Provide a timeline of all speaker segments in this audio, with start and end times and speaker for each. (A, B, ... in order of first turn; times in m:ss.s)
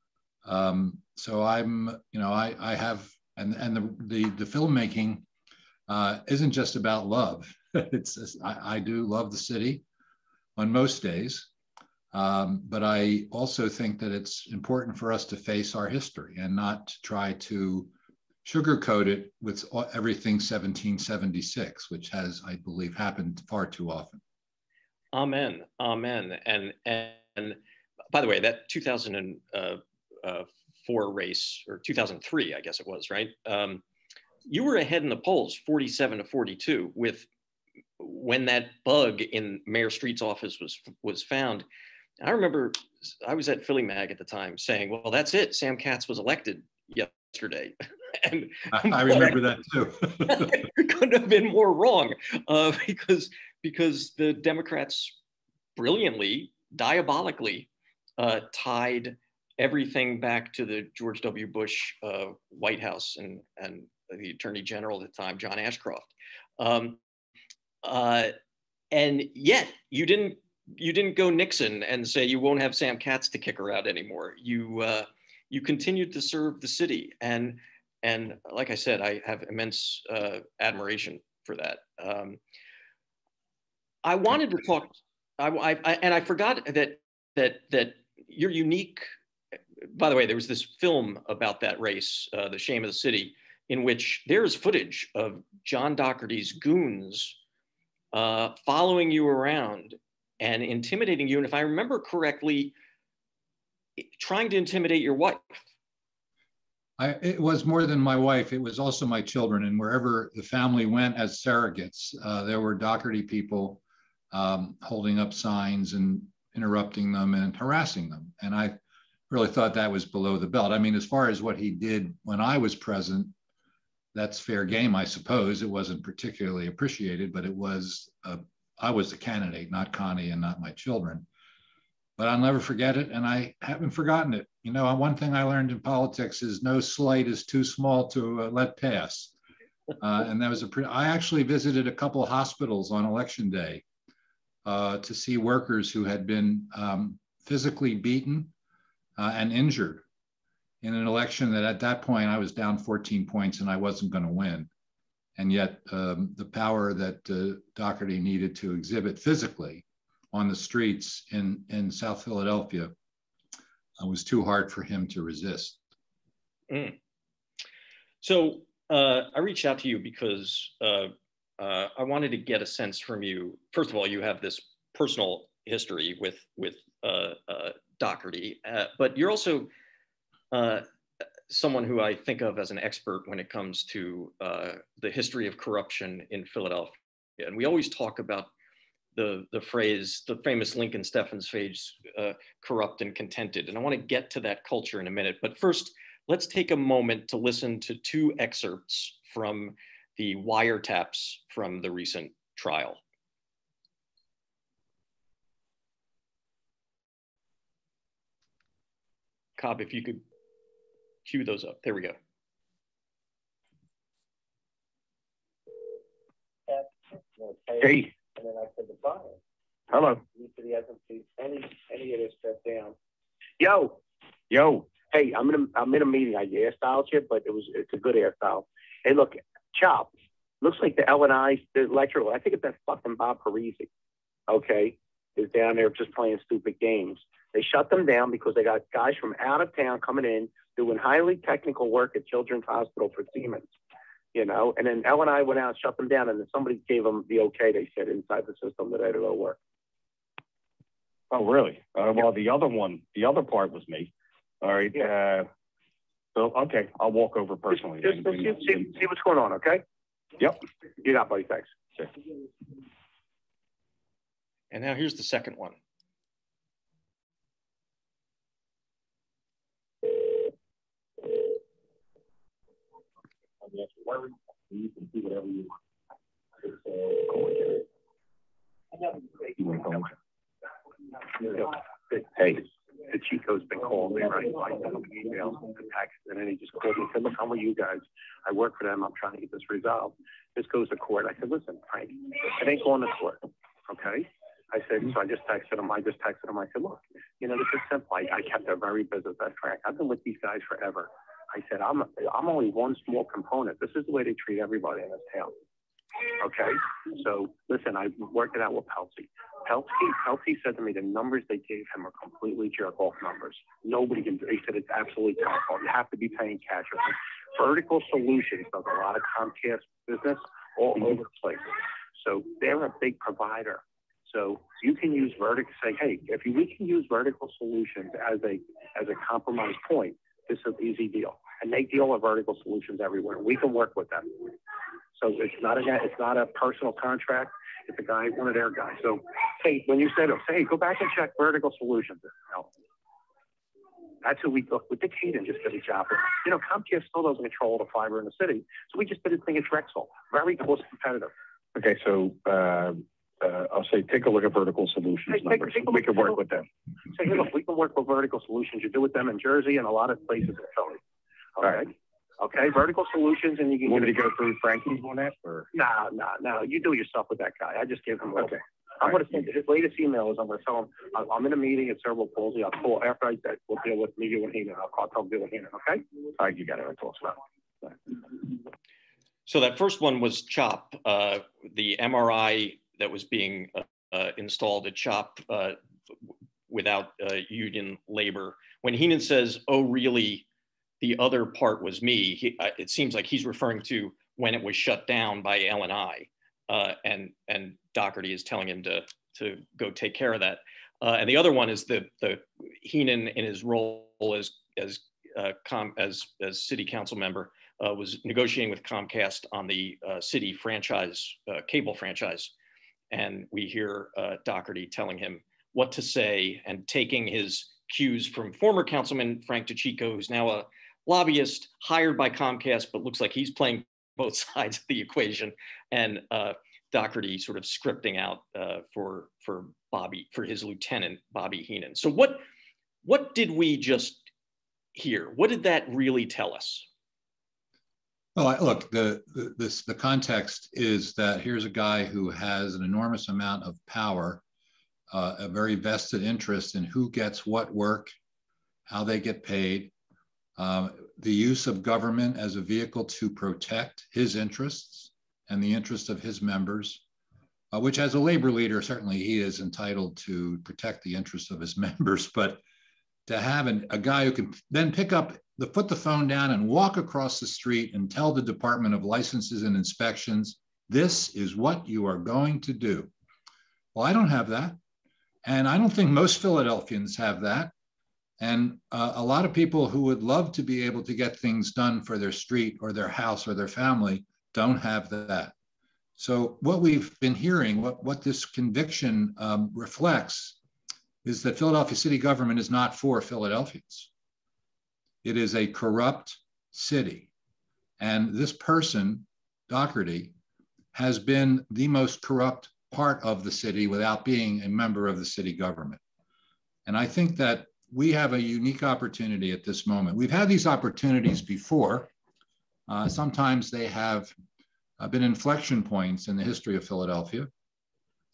0:00.4-0:05.2 A
0:05.9-0:09.8 A
0:10.6-0:11.5 A
0:12.1-0:17.9 A
0:18.4-0:24.2 A
0:25.1-0:27.6 B
0:28.1-0:33.8 B
0:34.4-0:37.3 B
0:38.0-0:41.6 B
0:42.2-0:49.4 B
0:48.7-0:50.6 A
0:50.2-0:55.2 B
0:55.8-1:07.0 B
1:07.8-1:08.3 B
1:08.9-1:22.4 B
1:24.0-1:29.1 B
1:29.9-1:37.4 B
1:38.1-1:42.7 B
1:44.0-1:45.6 B
1:47.0-1:58.8 A
1:59.3-2:03.3 A
2:04.1-2:11.3 A
2:12.2-2:19.3 A
2:20.0-2:23.8 A
2:24.6-2:28.5 A
2:29.2-2:30.0 A
2:30.8-2:34.7 A
2:35.4-2:42.9 A
2:44.0-2:45.8 A
2:46.7-2:47.0 B
2:48.2-2:59.7 B
3:00.5-3:00.8 B
3:01.5-3:08.5 B
3:09.1-3:23.0 B
3:29.6-3:30.2 B
3:31.2-3:32.2 B
3:36.7-3:39.4 C
3:37.8-3:38.1 D
3:39.9-3:40.2 D
3:40.3-3:42.9 C
3:43.6-3:44.0 C
3:44.5-3:44.9 D
3:45.0-3:53.9 C
3:54.5-4:03.7 C
4:04.3-4:09.6 C
4:11.3-4:15.5 D
4:16.3-4:18.9 D
4:18.0-4:19.8 C
4:21.0-4:21.7 C
4:24.7-4:25.8 B
4:33.6-4:35.7 D
4:37.0-4:37.8 D
4:39.5-4:40.1 D
4:41.3-5:05.5 C
5:06.4-5:34.5 C
5:35.2-5:42.7 C
5:44.2-5:51.3 C
5:51.7-5:56.6 D
5:55.3-5:56.4 C
5:57.1-6:01.0 C
6:01.6-6:04.3 C
6:03.9-6:05.7 D
6:05.7-6:16.0 C
6:16.4-6:17.4 D
6:19.5-6:25.8 B
6:26.7-6:30.4 B
6:31.0-6:52.5 B
6:53.1-7:12.4 B
7:13.0-7:14.2 B
7:14.9-7:16.9 B
7:18.4-7:24.4 A
7:25.1-7:28.1 A
7:28.9-7:29.9 A
7:30.6-7:37.0 A
7:37.7-7:42.6 A
7:43.3-7:53.1 A
7:53.9-7:54.8 A
7:55.4-7:57.7 A
7:58.4-8:05.5 A
8:06.2-8:10.6 A
8:11.2-8:14.1 A
8:15.2-8:17.3 A
8:18.0-8:20.3 A
8:20.9-8:26.0 A
8:26.8-8:32.1 A
8:32.9-8:34.3 A
8:35.0-8:37.5 A